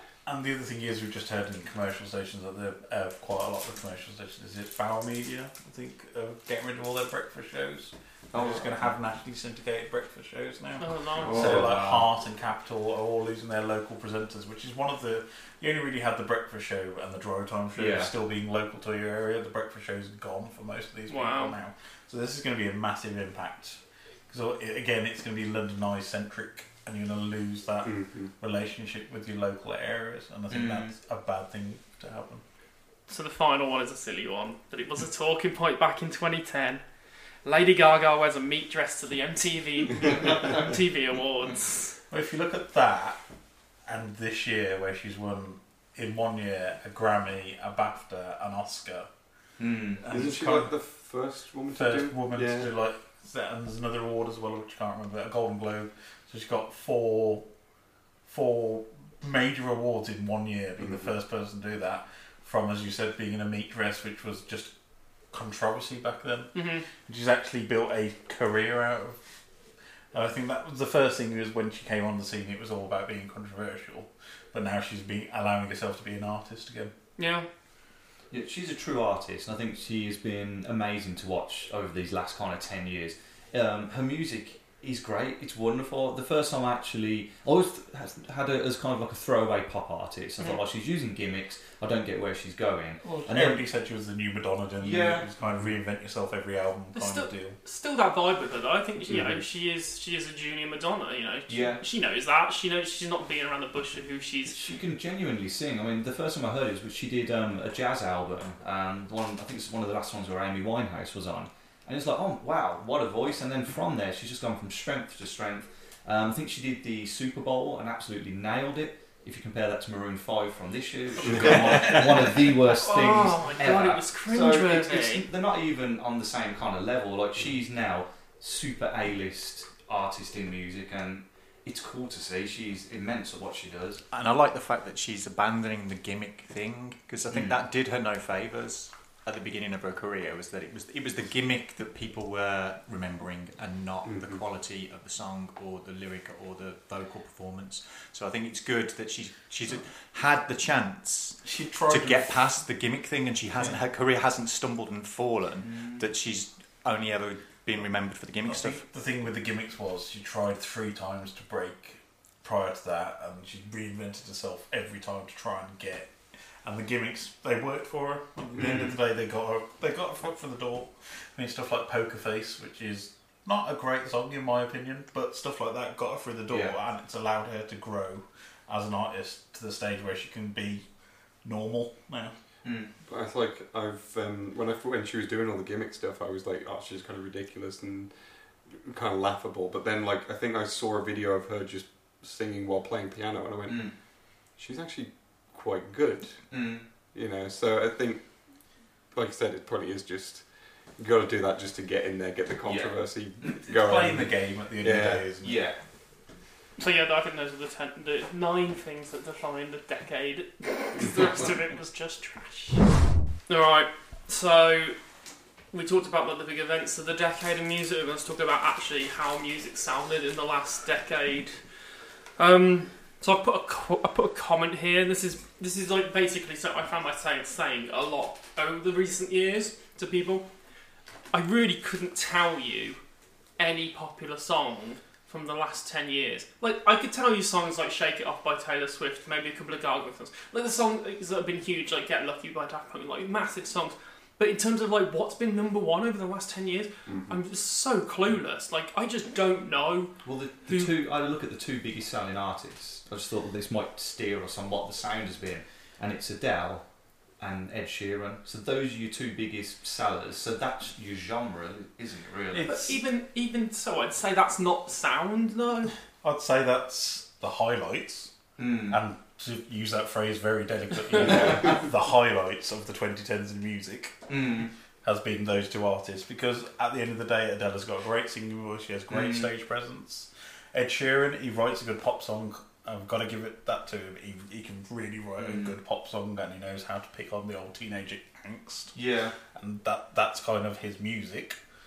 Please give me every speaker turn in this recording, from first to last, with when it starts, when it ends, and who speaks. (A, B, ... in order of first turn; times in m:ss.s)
0:00.2-0:32.4 A
0:08.3-0:08.9 B
0:10.8-0:11.3 C
0:11.2-0:11.8 D
0:11.3-0:12.1 B
0:17.8-0:18.1 B
0:21.1-0:21.6 C
0:27.8-0:28.4 D
0:30.5-0:31.0 B
0:33.1-0:36.8 C
0:37.4-0:42.0 C
0:42.1-0:43.2 A
0:43.8-0:49.1 A
0:49.6-0:50.0 B
0:50.0-0:50.9 A
0:50.1-0:52.7 D
0:51.8-0:57.5 A
0:58.2-1:09.3 A
1:00.8-1:01.1 D
1:06.5-1:06.8 C
1:10.1-1:16.9 A
1:17.2-1:17.5 C
1:18.3-1:33.6 B
1:33.0-1:37.6 A
1:34.8-1:35.3 B
1:36.9-1:44.6 C
1:39.1-1:39.4 D
1:41.5-1:41.8 B
1:44.4-2:14.0 B
2:01.3-2:01.6 D
2:02.8-2:05.2 C
2:14.1-2:38.8 E
2:24.0-2:24.4 D
2:31.4-2:32.6 A
2:35.6-2:36.1 B
2:38.4-3:02.4 A
2:48.5-2:48.9 D
2:48.6-2:49.0 B
2:56.5-2:56.8 B
3:02.6-3:02.9 B
3:03.0-3:25.3 D
3:13.7-3:14.0 B
3:16.5-3:16.9 B
3:22.6-3:23.7 B
3:23.7-3:25.7 A
3:25.4-3:25.8 B
3:26.8-3:35.0 C
3:35.7-3:41.7 C
3:42.4-3:50.5 C
3:51.3-3:53.0 C
3:53.6-4:10.9 C
4:07.1-4:07.4 D
4:10.2-4:22.9 B
4:22.5-4:22.9 A
4:22.6-4:26.0 C
4:26.2-4:34.4 A
4:28.6-4:29.0 B
4:31.2-4:31.8 D
4:34.3-4:34.7 B
4:35.0-4:49.0 A
4:39.1-4:39.5 B
4:45.4-4:45.8 B
4:48.9-4:49.3 B
4:49.5-4:51.6 A